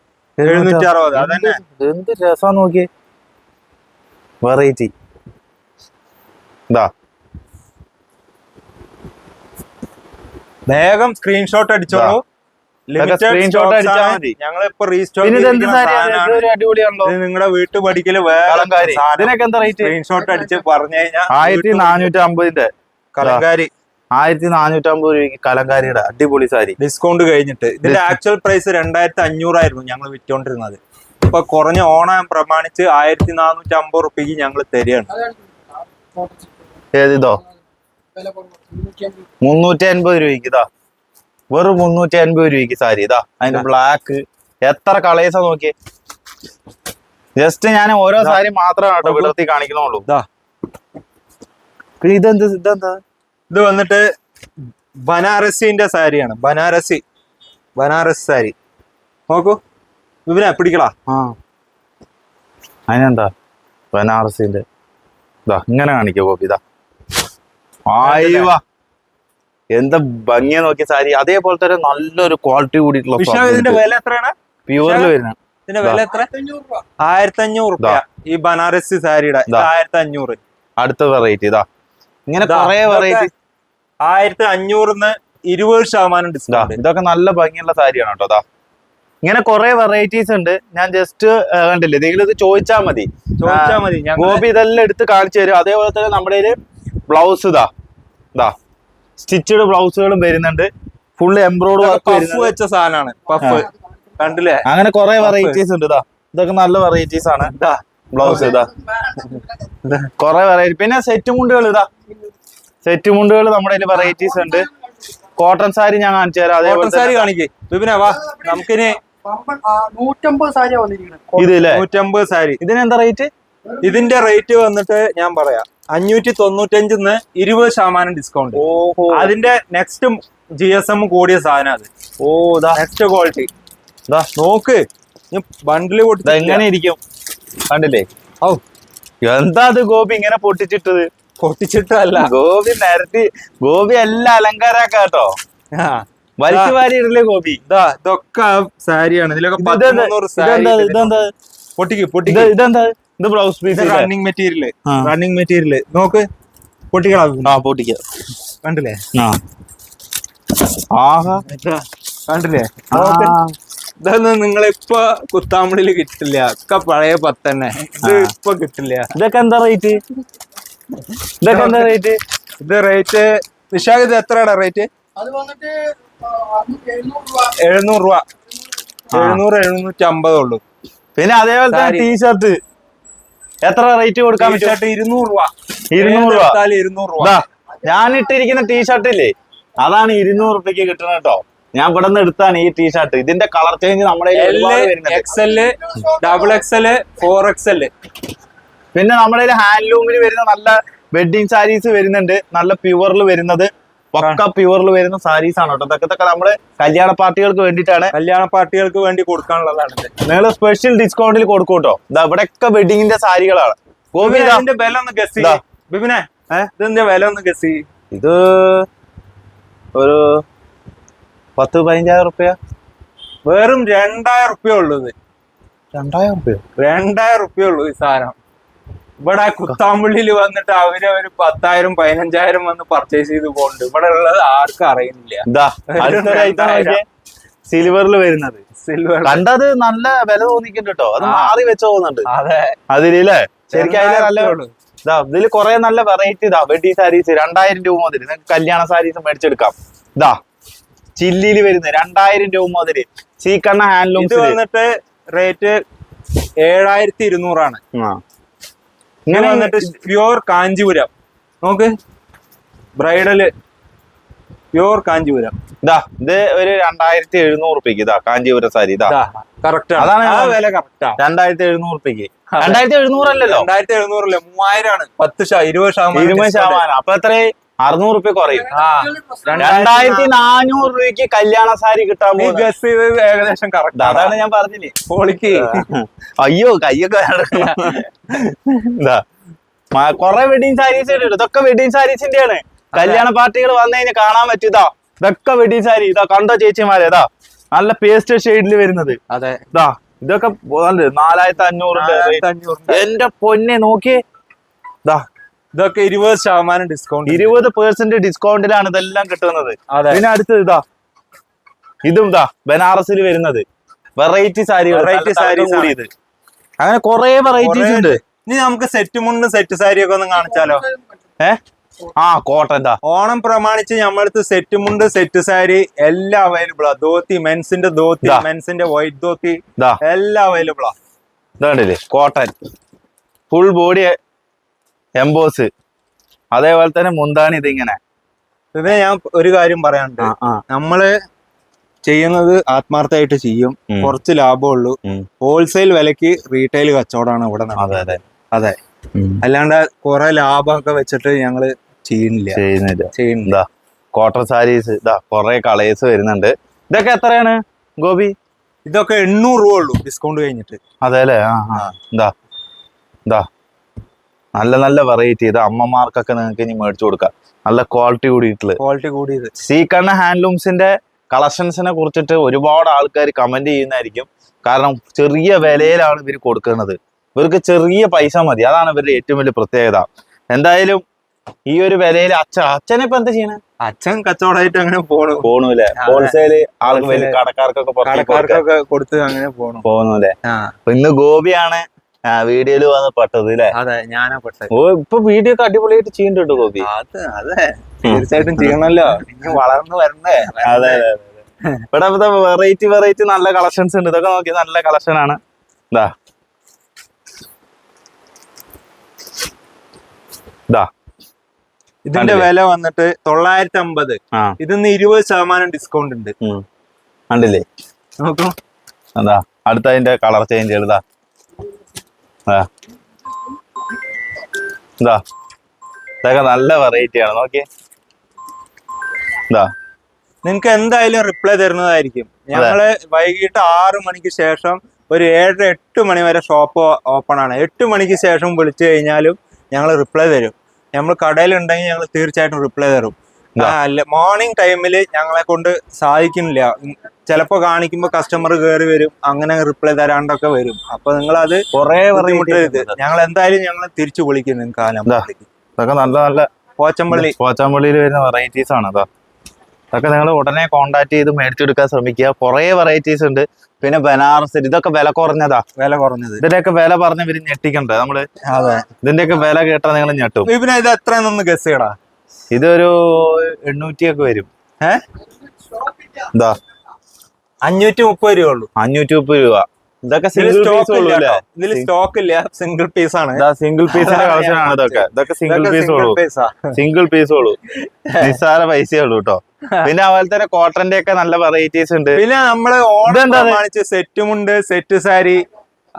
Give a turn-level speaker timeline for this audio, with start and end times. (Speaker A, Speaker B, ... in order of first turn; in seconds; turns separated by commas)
Speaker A: 0.4-2.9, Speaker B: 0.5-1.6, Speaker A: 4.4-4.9, Speaker B: 10.7-12.2, Speaker A: 11.9-12.2, Speaker B: 12.9-16.5, Speaker A: 13.0-14.3, Speaker A: 15.2-17.1, Speaker B: 17.0-22.1, Speaker A: 18.5-19.9, Speaker A: 21.3-22.7, Speaker B: 23.1-23.7, Speaker A: 24.2-26.8, Speaker B: 26.8-35.1, Speaker A: 27.8-28.1, Speaker A: 37.0-37.4, Speaker A: 39.4-40.6, Speaker A: 41.5-45.7, Speaker A: 47.4-50.1, Speaker B: 49.0-49.3, Speaker A: 52.0-53.0, Speaker B: 53.5-54.1, Speaker B: 55.0-57.0, Speaker B: 57.8-58.5, Speaker B: 59.3-59.6, Speaker B: 60.3-60.9, Speaker A: 61.1-61.4, Speaker A: 62.9-63.3, Speaker A: 63.9-64.6, Speaker A: 65.5-66.6, Speaker A: 67.9-68.6, Speaker B: 68.0-68.5, Speaker A: 69.7-73.8, Speaker B: 73.2-75.1, Speaker A: 74.7-76.0, Speaker B: 75.7-76.3, Speaker B: 77.0-80.4, Speaker A: 80.8-81.7, Speaker A: 82.3-83.3, Speaker B: 82.4-83.3, Speaker B: 84.0-86.8, Speaker A: 86.5-88.4, Speaker A: 89.2-96.5, Speaker B: 93.4-94.5, Speaker A: 97.1-97.7, Speaker A: 99.2-102.5, Speaker B: 101.8-104.7, Speaker A: 103.4-103.7, Speaker A: 104.7-107.5, Speaker B: 105.2-105.6, Speaker B: 107.5-108.6, Speaker A: 108.1-108.7, Speaker B: 109.2-110.1, Speaker A: 110.2-111.9, Speaker A: 112.8-114.7, Speaker A: 115.4-117.2, Speaker B: 116.6-119.0, Speaker C: 119.5-121.3, Speaker A: 121.4-121.8, Speaker B: 121.6-122.6, Speaker A: 122.6-123.3, Speaker B: 123.8-131.9, Speaker A: 128.5-129.3, Speaker A: 132.2-132.8, Speaker B: 132.7-133.5, Speaker B: 134.4-136.6, Speaker A: 136.2-137.0, Speaker A: 137.7-138.1, Speaker A: 139.2-141.1, Speaker B: 141.4-142.3, Speaker A: 142.2-145.3, Speaker B: 145.7-146.7, Speaker A: 146.4-147.6, Speaker B: 147.7-151.2, Speaker A: 149.6-151.3, Speaker B: 151.8-152.5, Speaker A: 152.3-154.1, Speaker B: 153.7-156.3, Speaker A: 154.9-155.1, Speaker B: 156.9-157.6, Speaker A: 157.4-158.0, Speaker B: 158.6-159.0, Speaker A: 160.9-161.4, Speaker B: 161.4-163.4, Speaker A: 162.9-163.6, Speaker B: 164.0-169.1, Speaker A: 168.0-168.3, Speaker A: 169.2-170.0, Speaker A: 171.4-172.2, Speaker B: 171.5-171.9, Speaker B: 172.6-174.9, Speaker C: 175.2-175.8, Speaker C: 176.4-177.3, Speaker B: 177.5-178.2, Speaker A: 179.1-179.4, Speaker B: 179.1-180.6, Speaker A: 181.2-182.6, Speaker B: 181.7-182.1, Speaker A: 183.7-184.8, Speaker B: 184.4-187.4, Speaker A: 185.9-186.6, Speaker A: 187.2-195.4, Speaker B: 194.3-197.9, Speaker A: 198.9-208.1, Speaker B: 208.1-210.1, Speaker A: 210.2-214.6, Speaker B: 214.2-217.8, Speaker A: 218.1-218.9, Speaker A: 220.0-220.4, Speaker A: 221.6-222.6, Speaker B: 223.4-225.1, Speaker A: 225.9-226.6, Speaker B: 226.8-228.4, Speaker B: 229.2-237.0, Speaker A: 235.5-237.0, Speaker A: 237.7-238.6, Speaker B: 238.8-239.4, Speaker A: 239.2-242.3, Speaker B: 241.2-241.6, Speaker B: 242.3-242.8, Speaker A: 242.9-250.4, Speaker B: 243.7-244.7, Speaker A: 251.2-254.6, Speaker B: 254.2-255.8, Speaker B: 256.6-257.8, Speaker A: 257.9-258.2, Speaker A: 259.3-259.9, Speaker B: 259.3-261.1, Speaker B: 261.6-261.9, Speaker B: 263.0-263.5, Speaker B: 264.7-265.6, Speaker A: 265.8-269.1, Speaker B: 269.1-271.2, Speaker A: 270.0-270.6, Speaker A: 271.2-273.7, Speaker B: 272.5-276.8, Speaker A: 276.1-278.7, Speaker B: 278.7-280.3, Speaker A: 279.6-282.7, Speaker B: 282.4-284.4, Speaker A: 284.0-284.9, Speaker B: 285.0-285.9, Speaker A: 285.6-289.2, Speaker B: 287.5-288.5, Speaker A: 289.9-299.2, Speaker B: 292.9-293.3, Speaker B: 299.3-299.6, Speaker A: 299.7-304.2, Speaker B: 301.9-303.1, Speaker B: 305.8-307.6, Speaker A: 307.3-310.8, Speaker B: 309.9-310.2, Speaker A: 312.1-313.6, Speaker A: 314.2-316.1, Speaker B: 314.9-316.0, Speaker A: 316.8-318.2, Speaker B: 317.6-320.9, Speaker A: 322.2-323.0, Speaker B: 323.0-330.9, Speaker A: 331.6-332.5, Speaker A: 333.5-334.1, Speaker A: 335.2-335.7, Speaker A: 336.5-338.0, Speaker B: 338.8-341.1, Speaker A: 340.2-340.6, Speaker B: 342.1-348.8, Speaker A: 343.9-344.2, Speaker A: 347.8-348.2, Speaker A: 349.2-349.4, Speaker B: 349.4-352.6, Speaker A: 352.5-358.3, Speaker B: 353.1-353.5, Speaker B: 358.9-360.8, Speaker A: 361.0-362.3, Speaker A: 364.6-368.8, Speaker B: 368.8-369.5, Speaker A: 369.6-381.0, Speaker A: 381.7-383.6, Speaker B: 383.8-386.3, Speaker A: 385.4-388.6, Speaker B: 386.9-387.4, Speaker B: 388.0-389.8, Speaker A: 389.9-390.3, Speaker B: 390.4-390.7, Speaker A: 390.9-393.8, Speaker B: 393.7-394.7, Speaker A: 394.7-396.9, Speaker B: 396.8-401.1, Speaker A: 398.1-398.7, Speaker A: 400.6-401.4, Speaker A: 401.9-405.4, Speaker B: 412.1-416.4, Speaker A: 412.1-412.5, Speaker A: 417.3-417.6, Speaker B: 418.2-418.5, Speaker A: 419.2-421.0, Speaker A: 426.2-427.6, Speaker B: 430.4-455.5, Speaker A: 451.7-452.9, Speaker A: 455.8-456.5, Speaker B: 456.8-457.4, Speaker A: 457.1-459.1, Speaker A: 459.9-465.6, Speaker B: 465.8-466.4, Speaker A: 466.4-468.2, Speaker B: 468.4-468.9, Speaker A: 469.0-470.5, Speaker B: 470.4-471.9, Speaker A: 472.5-474.5, Speaker B: 477.6-478.7, Speaker A: 478.8-481.9, Speaker B: 480.4-486.8, Speaker A: 483.4-486.2, Speaker A: 486.8-487.6, Speaker B: 487.8-488.4, Speaker A: 488.2-492.2, Speaker B: 492.1-495.4, Speaker A: 493.1-493.6